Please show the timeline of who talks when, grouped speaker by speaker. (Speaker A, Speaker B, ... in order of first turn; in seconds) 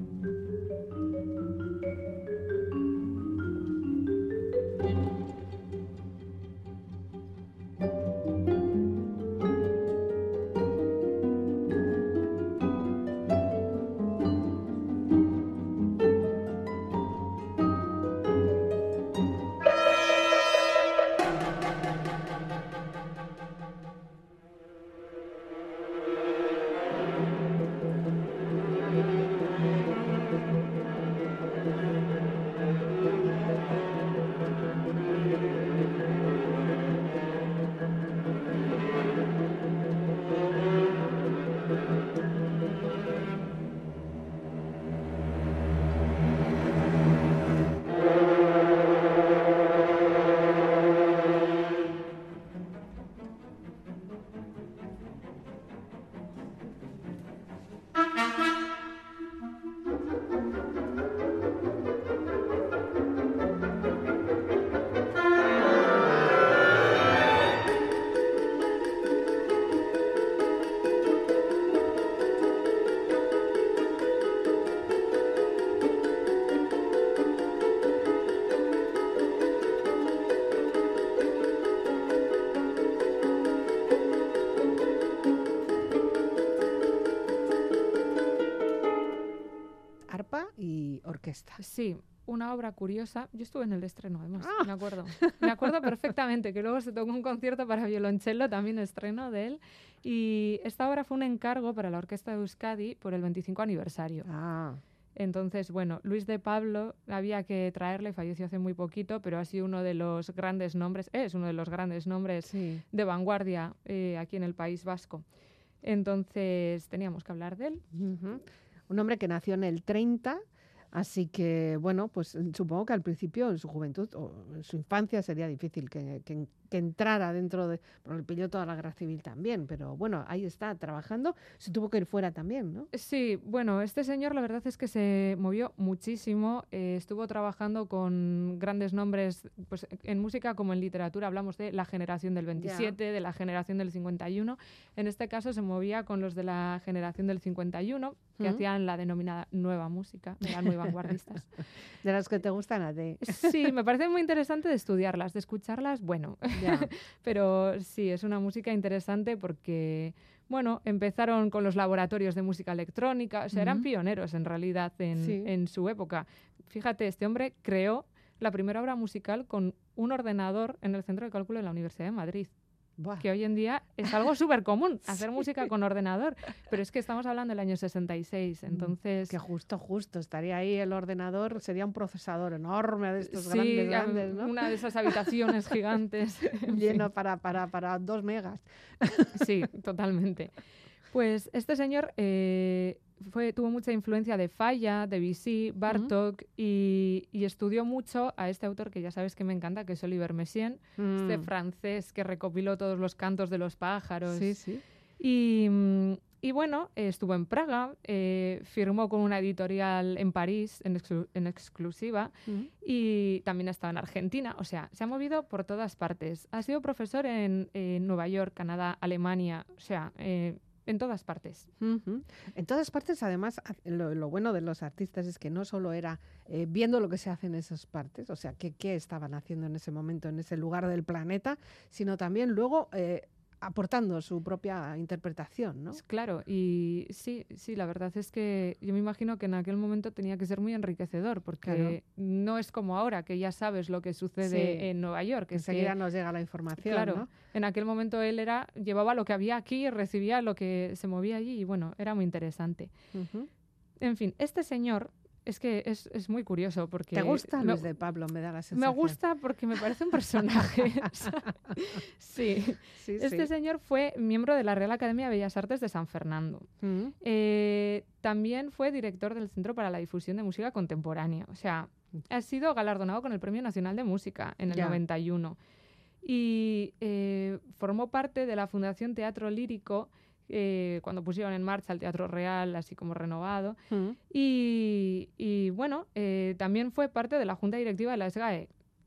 Speaker A: 90.1-91.6, 94.4-95.9, 104.2-104.8, 112.5-112.8, 117.9-132.9, 142.6-143.0, 150.5-150.9, 152.0-153.7, 156.6-156.9, 163.5-163.8, 165.2-165.5, 173.0-173.2, 178.7-184.6, 186.7-189.5, 195.9-196.1, 201.0-201.5, 204.3-204.8, 221.8-236.0, 241.6-242.0, 244.4-244.9, 245.5-247.3, 253.1-253.5, 257.1-259.2, 263.0-263.5, 266.8-267.1, 274.7-275.0, 283.9-284.2
Speaker B: 91.6-104.3, 105.2-115.2, 115.8-117.8, 132.9-151.6, 153.2-172.5, 173.2-179.4, 183.2-187.0, 189.3-190.5, 191.1-204.6, 205.2-221.7, 235.9-245.9, 246.8-252.9, 254.0-257.9, 258.7-266.7, 267.2-275.6, 276.2-283.8, 284.3-288.7